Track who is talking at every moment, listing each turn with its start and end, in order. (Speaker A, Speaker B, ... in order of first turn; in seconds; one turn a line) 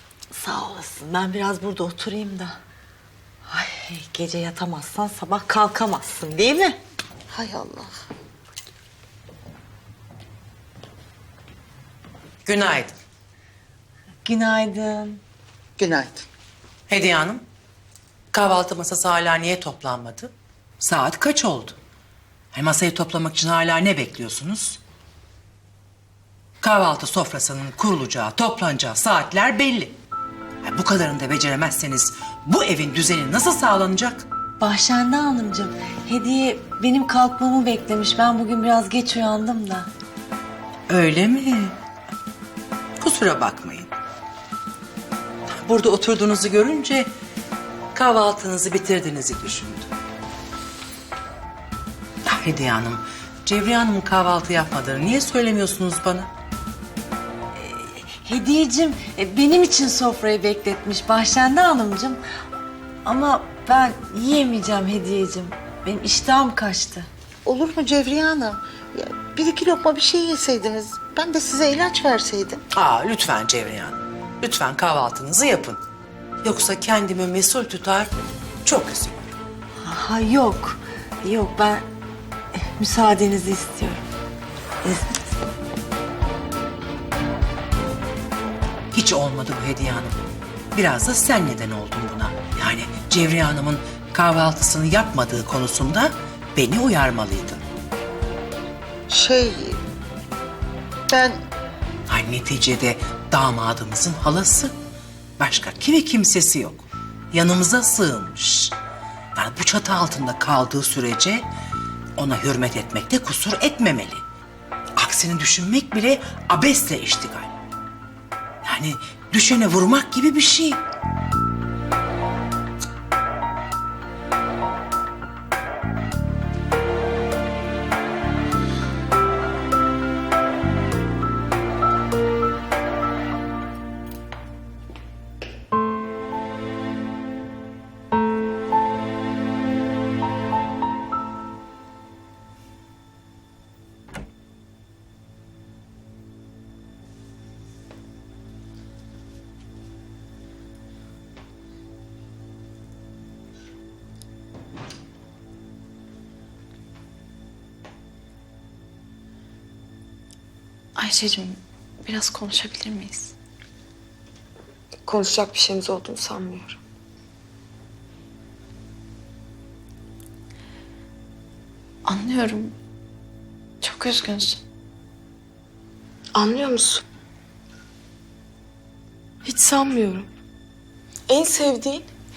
Speaker A: 0.3-2.6
Speaker A: 3.5-6.8
Speaker B: 7.3-7.9
Speaker C: 12.4-12.9
Speaker A: 14.2-15.2
Speaker B: 15.8-16.3
Speaker C: 16.9-17.4
Speaker C: 18.3-21.8
Speaker C: 22.5-24.8
Speaker C: 26.6-30.0
Speaker C: 30.6-34.2
Speaker A: 34.6-39.9
Speaker C: 40.9-41.8
Speaker C: 43.0-43.9
Speaker C: 45.5-47.1
Speaker C: 47.9-49.9
Speaker C: 52.2-56.3
Speaker A: 57.5-62.2
Speaker A: 63.0-67.1
Speaker B: 67.5-72.6
Speaker C: 72.7-75.8
Speaker C: 76.4-78.1
Speaker C: 78.7-79.3
Speaker A: 79.8-81.9
Speaker A: 82.5-84.0
Speaker A: 84.8-85.2
Speaker C: 88.9-90.2
Speaker C: 90.7-97.6
Speaker B: 99.1-99.8
Speaker B: 101.1-101.4
Speaker C: 102.1-104.7
Speaker C: 105.4-108.8
Speaker C: 109.4-111.5
Speaker C: 112.2-114.2
Speaker C: 115.0-117.5
Speaker C: 118.6-120.8
Speaker D: 161.0-163.3
Speaker E: 165.1-166.8
Speaker D: 172.1-172.8
Speaker D: 173.8-174.6
Speaker E: 176.3-177.0
Speaker E: 179.4-180.3
Speaker E: 181.3-182.1